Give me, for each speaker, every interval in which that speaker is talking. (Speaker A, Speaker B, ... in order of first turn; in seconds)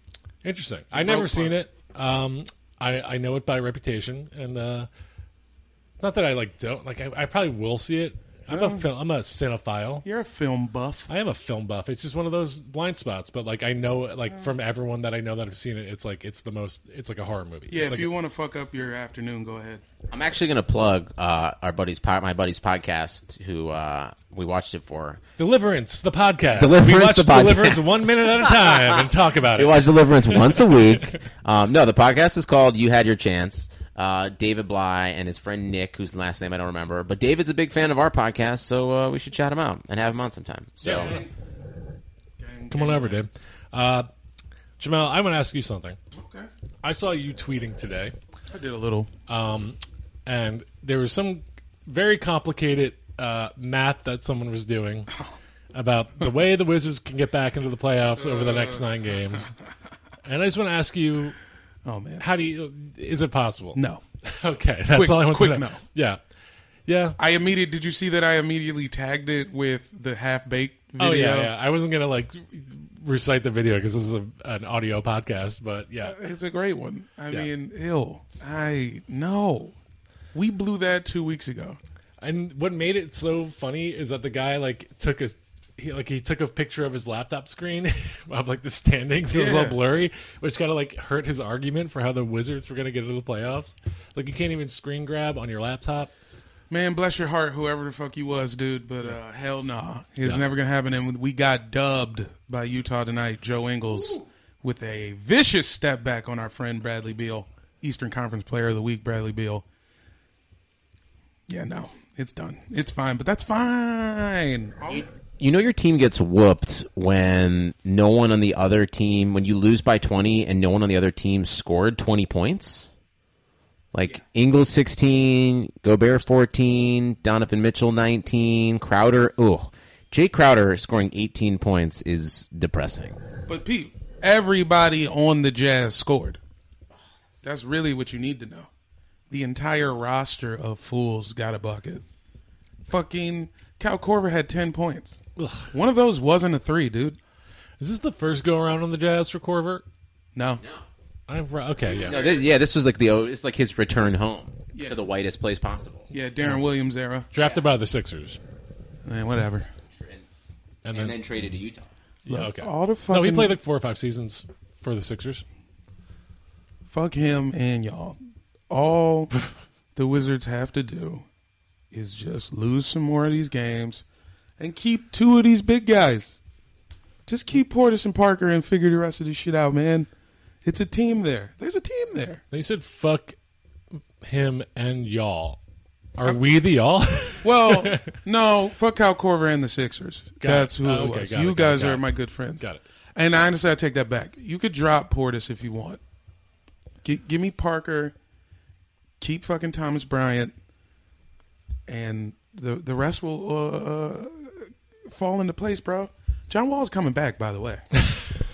Speaker A: 0.4-4.9, 6.0-10.1, 11.1-18.1, 25.4-30.4, 40.8-41.1, 42.7-44.1, 44.8-46.0, 46.8-48.1, 49.3-55.1, 55.7-59.5, 60.2-61.4, 62.2-66.2, 66.9-67.2, 71.0-76.2, 82.2-96.1, 145.4-145.7, 147.8-149.8, 151.3-152.2, 157.3-158.4, 160.8-161.2, 162.3-165.4, 182.5-183.4, 184.2-185.6, 186.2-188.1, 190.4-192.1, 208.0-208.3
Speaker B: 0.9-1.6, 8.5-8.9, 10.0-11.1, 17.7-19.8, 40.8-41.3, 42.4-43.2, 46.1-46.5, 48.5-49.1, 58.2-58.9, 61.9-62.2, 63.8-64.0, 64.9-65.8, 67.2-71.5, 76.0-79.8, 80.3-81.8, 89.3-89.8, 96.7-109.7, 111.5-115.1, 133.5-136.4, 137.4-138.7, 139.3-142.0, 142.9-145.2, 145.7-147.2, 150.3-150.6, 151.9-152.5, 156.1-157.3, 159.1-159.7, 162.3-163.6, 166.9-168.2, 168.7-171.3, 171.9-174.0, 174.6-176.4, 177.3-180.1, 180.6-182.4, 187.4-192.6, 193.2-196.0, 197.0-198.1, 199.2-200.5, 201.9-204.6, 205.1-207.8
Speaker C: 20.1-25.2, 26.6-27.9, 28.5-28.9, 29.6-41.2, 104.0-104.2, 114.9-122.9, 123.9-133.2, 136.9-137.4, 150.6-150.9, 152.0-156.1, 159.9-160.2, 160.9-161.9